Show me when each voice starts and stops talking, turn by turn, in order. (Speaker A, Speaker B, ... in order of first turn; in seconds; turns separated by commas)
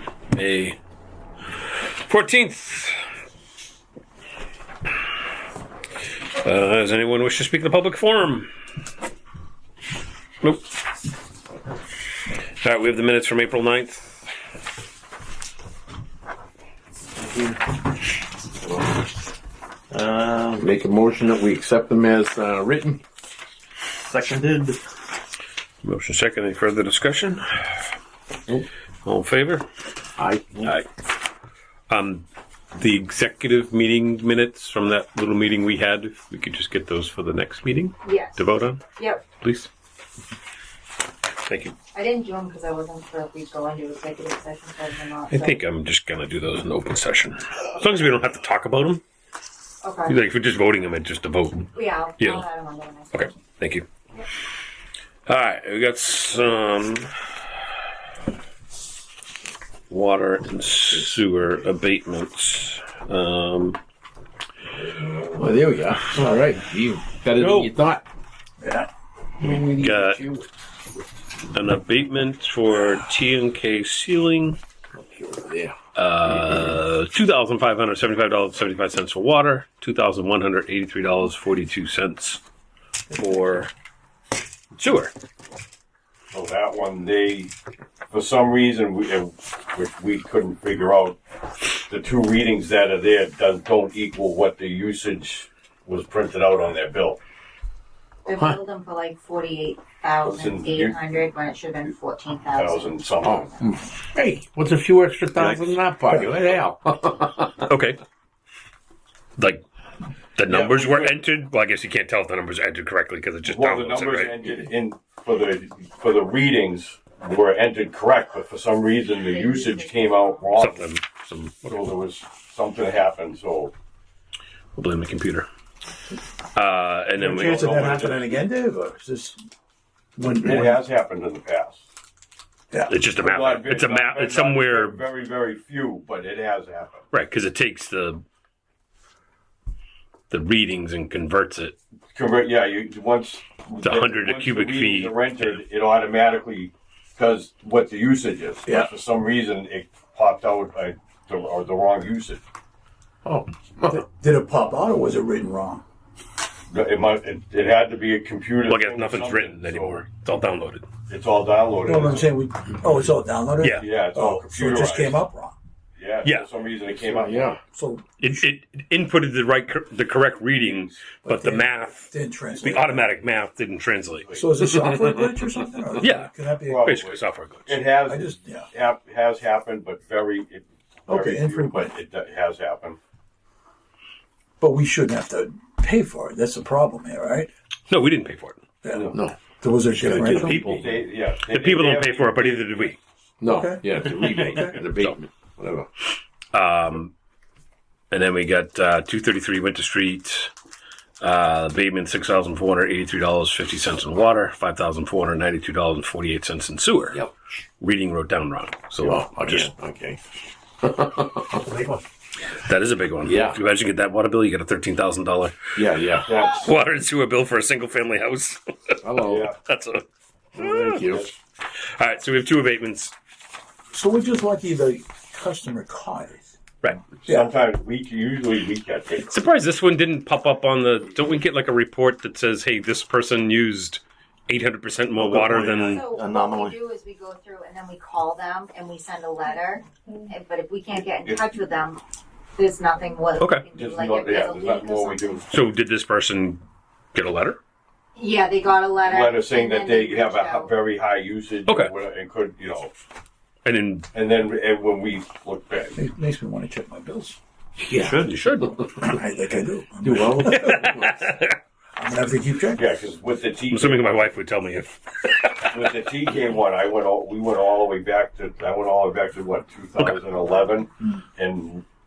Speaker A: 0.3-0.8, Speaker A: 2.1-3.0, Speaker A: 6.4-8.5, Speaker A: 12.6-14.3, Speaker B: 17.2-17.6, Speaker B: 19.9-20.6, Speaker C: 20.6-23.0, Speaker B: 24.1-24.8, Speaker A: 25.8-27.9, Speaker A: 29.1-29.6, Speaker C: 30.2-30.7, Speaker A: 31.9-32.2, Speaker A: 32.8-38.8, Speaker D: 38.0-38.4, Speaker D: 39.0-39.2, Speaker A: 39.4-39.7, Speaker A: 41.4-41.8, Speaker D: 41.9-45.6, Speaker A: 45.3-49.0, Speaker D: 49.8-50.2, Speaker A: 50.1-52.5, Speaker D: 51.7-53.3, Speaker A: 53.1-53.9, Speaker A: 55.3-57.1, Speaker A: 59.9-63.8, Speaker C: 65.3-68.0, Speaker A: 67.3-67.7, Speaker E: 68.6-68.9, Speaker C: 69.4-70.5, Speaker A: 69.8-70.2, Speaker A: 71.5-74.6, Speaker C: 75.0-76.8, Speaker A: 76.0-82.4, Speaker A: 83.1-83.7, Speaker A: 84.8-85.1, Speaker F: 86.3-87.5, Speaker F: 88.1-91.2, Speaker F: 91.9-97.2, Speaker D: 98.2-103.5, Speaker F: 100.2-101.0, Speaker F: 102.5-103.5, Speaker C: 103.2-107.6, Speaker E: 106.1-106.3, Speaker A: 107.6-108.0, Speaker A: 109.4-109.6, Speaker A: 110.4-114.4, Speaker C: 110.5-110.8, Speaker F: 110.7-111.1, Speaker F: 113.5-120.9, Speaker D: 119.2-120.3, Speaker A: 120.6-121.8, Speaker F: 121.7-123.7, Speaker A: 124.7-125.5, Speaker A: 126.5-127.7, Speaker E: 127.2-129.4, Speaker F: 127.3-128.2, Speaker E: 130.2-130.8, Speaker F: 130.4-131.8, Speaker A: 132.9-135.0, Speaker F: 133.1-137.1, Speaker A: 137.1-138.2, Speaker A: 140.3-141.8, Speaker F: 142.1-152.4, Speaker A: 143.8-145.5, Speaker E: 148.7-148.9, Speaker C: 153.2-154.0, Speaker E: 153.9-155.8, Speaker F: 156.7-160.0, Speaker A: 158.6-160.9, Speaker F: 161.1-162.3, Speaker E: 161.8-165.6, Speaker F: 163.8-165.2, Speaker F: 166.0-167.6, Speaker A: 166.2-166.5, Speaker C: 167.0-167.6, Speaker E: 167.7-168.4, Speaker A: 168.2-175.1, Speaker F: 170.6-171.0, Speaker E: 171.2-173.2, Speaker F: 174.2-174.8, Speaker E: 174.3-177.0, Speaker A: 176.0-177.8, Speaker F: 176.7-183.0, Speaker E: 178.1-178.7, Speaker E: 181.1-181.9, Speaker E: 184.6-187.5, Speaker A: 187.9-188.6, Speaker E: 188.8-190.8, Speaker F: 188.9-189.2, Speaker C: 189.1-190.9, Speaker F: 190.2-192.9, Speaker A: 190.4-190.8, Speaker A: 191.4-193.0, Speaker C: 193.4-195.9, Speaker E: 193.5-193.8, Speaker A: 196.5-197.1, Speaker A: 198.1-200.5, Speaker A: 201.2-207.2, Speaker A: 207.8-209.7, Speaker C: 209.0-210.2, Speaker C: 210.8-211.8, Speaker A: 212.6-215.6, Speaker C: 213.2-213.6, Speaker C: 215.8-216.3, Speaker F: 216.3-216.7, Speaker A: 216.3-220.1, Speaker C: 219.0-219.5, Speaker F: 219.2-219.6, Speaker A: 220.6-221.2, Speaker C: 220.6-221.3, Speaker A: 222.0-223.1, Speaker E: 223.9-226.5, Speaker E: 227.2-227.5, Speaker F: 227.3-229.3, Speaker A: 229.2-236.0, Speaker B: 235.3-236.7, Speaker D: 235.8-242.0, Speaker D: 242.6-245.4, Speaker A: 243.4-243.7, Speaker F: 243.7-245.5, Speaker A: 245.5-246.6, Speaker A: 247.1-247.6, Speaker D: 248.2-250.7, Speaker F: 249.1-252.9, Speaker A: 251.7-251.9, Speaker A: 253.7-254.1, Speaker F: 254.1-256.0, Speaker E: 256.0-257.4, Speaker C: 257.9-259.1, Speaker A: 258.0-258.8, Speaker E: 259.0-260.9, Speaker C: 260.0-261.3, Speaker A: 260.6-261.6, Speaker E: 262.0-262.9, Speaker F: 262.7-264.3, Speaker A: 263.7-265.6, Speaker F: 265.7-271.9